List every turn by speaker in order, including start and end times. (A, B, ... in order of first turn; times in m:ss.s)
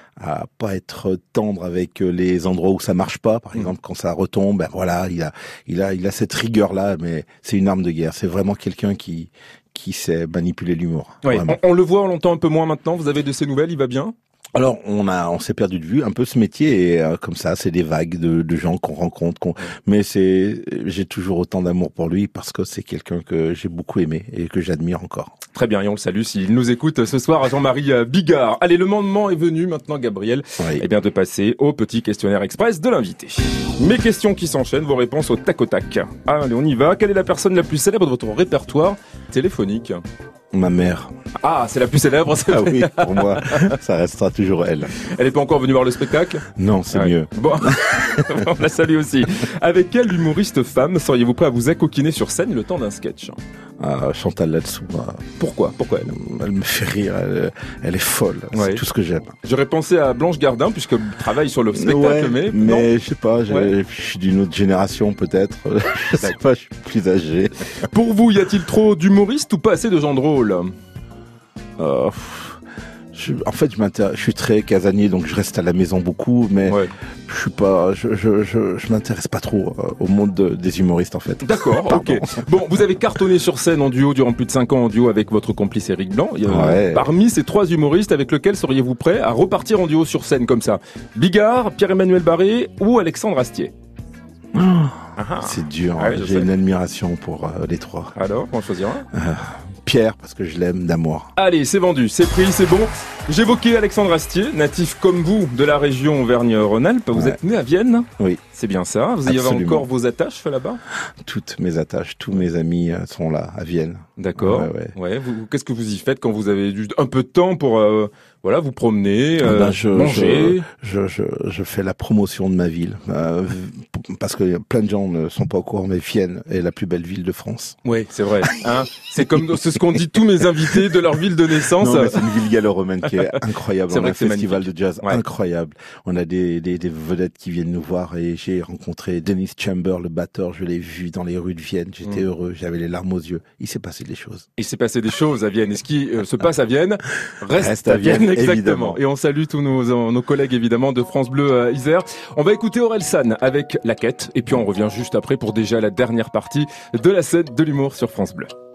0:00.2-0:11.6 A
0:11.2-0:14.1 B
0:14.5-0:25.4 A
0:25.5-0:40.0 B
0:30.6-0:30.9 A
0:40.5-0:41.1 A
0:41.4-0:43.7 B
0:42.5-0:45.0 A
0:45.0-0:53.4 B
0:46.6-0:48.5 A
0:53.8-0:55.3 A
0:55.4-0:56.1 B
0:56.0-0:59.4 A
0:58.5-0:58.8 B
0:59.4-1:02.9 B
1:01.7-1:07.9 A
1:07.9-1:10.7 B
1:11.8-1:12.6 A
1:13.1-1:22.5 A
1:16.7-1:16.9 B
1:21.4-1:33.7 B
1:26.5-1:27.1 A
1:34.5-1:38.2 A
1:35.2-1:36.5 B
1:38.2-1:39.1 B
1:39.1-1:41.3 A
1:41.4-1:50.8 B
1:47.1-1:47.4 A
1:49.3-1:49.9 A
1:51.2-1:54.9 A
1:54.2-2:00.6 B
1:59.4-2:07.8 A
2:07.8-2:12.2 B
2:11.8-2:24.5 A
2:13.9-2:15.2 B
2:24.6-2:38.5 B
2:27.6-2:29.0 A